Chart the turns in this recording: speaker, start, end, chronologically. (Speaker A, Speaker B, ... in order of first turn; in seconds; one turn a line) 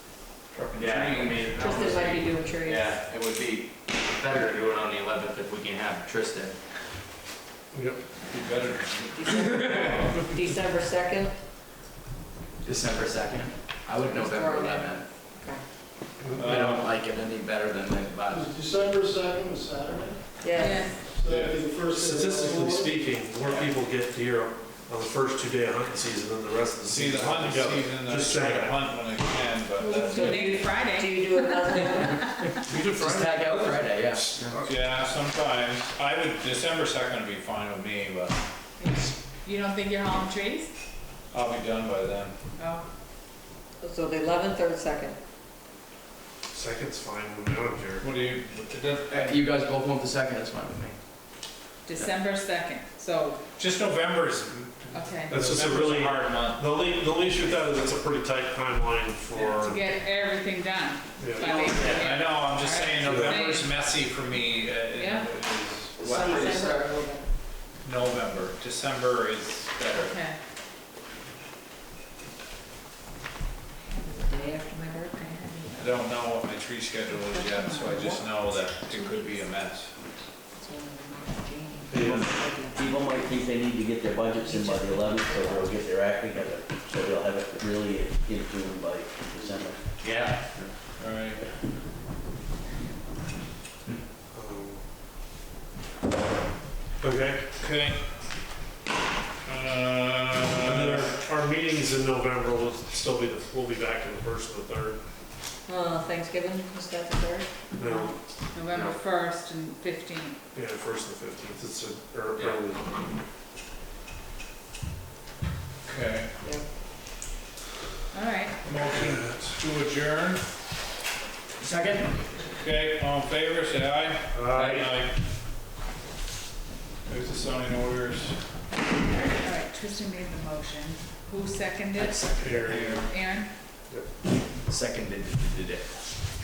Speaker A: 0.5-2.2
Speaker B: 0.8-1.4
Speaker C: 1.5-3.0
Speaker B: 2.7-6.5
Speaker D: 7.7-8.0
Speaker A: 8.2-10.3
Speaker C: 9.1-11.3
Speaker B: 12.6-15.0
Speaker C: 14.1-15.6
Speaker D: 16.2-16.8
Speaker A: 16.4-16.9
Speaker B: 16.4-18.4
Speaker E: 18.3-23.1
Speaker C: 20.4-21.0
Speaker F: 20.6-21.0
Speaker A: 21.3-21.6
Speaker D: 21.9-28.9
Speaker B: 23.4-23.7
Speaker A: 26.9-30.4
Speaker C: 29.8-32.2
Speaker F: 29.9-32.6
Speaker E: 32.8-35.1
Speaker B: 32.9-34.4
Speaker A: 34.6-38.4
Speaker F: 38.8-40.7
Speaker A: 41.3-42.3
Speaker F: 42.6-42.9
Speaker C: 43.8-45.2
Speaker D: 46.5-48.1
Speaker A: 48.0-49.6
Speaker B: 49.1-51.0
Speaker F: 51.9-53.4
Speaker A: 53.6-56.9
Speaker F: 54.9-55.4
Speaker D: 55.3-59.8
Speaker F: 59.3-63.7
Speaker D: 61.2-61.5
Speaker B: 61.4-62.0
Speaker A: 61.8-66.5
Speaker D: 63.1-63.5
Speaker F: 65.0-65.3
Speaker B: 66.0-66.9
Speaker C: 66.0-67.3
Speaker A: 67.8-70.2
Speaker F: 70.0-70.4
Speaker C: 73.8-76.0
Speaker A: 75.8-79.9
Speaker F: 77.3-78.1
Speaker C: 77.5-78.2
Speaker C: 78.9-79.5
Speaker C: 80.5-83.6
Speaker A: 81.9-82.3
Speaker G: 82.0-89.8
Speaker C: 84.2-85.8
Speaker B: 90.0-90.4
Speaker A: 91.0-91.4
Speaker D: 94.3-94.8
Speaker D: 97.0-97.6
Speaker A: 97.6-98.0
Speaker A: 99.5-101.2
Speaker D: 100.6-105.0
Speaker C: 105.7-107.5
Speaker D: 107.8-109.0
Speaker F: 107.8-110.4
Speaker D: 110.5-112.9
Speaker A: 115.8-116.3
Speaker F: 118.1-118.6
Speaker A: 118.6-120.4
Speaker D: 118.8-119.4
Speaker B: 121.6-122.2
Speaker A: 122.6-125.2
Speaker D: 124.3-124.9
Speaker A: 127.0-128.4
Speaker F: 129.1-132.3
Speaker B: 132.0-132.9
Speaker D: 132.4-133.1
Speaker A: 132.5-133.1
Speaker F: 132.9-133.5
Speaker B: 134.7-136.0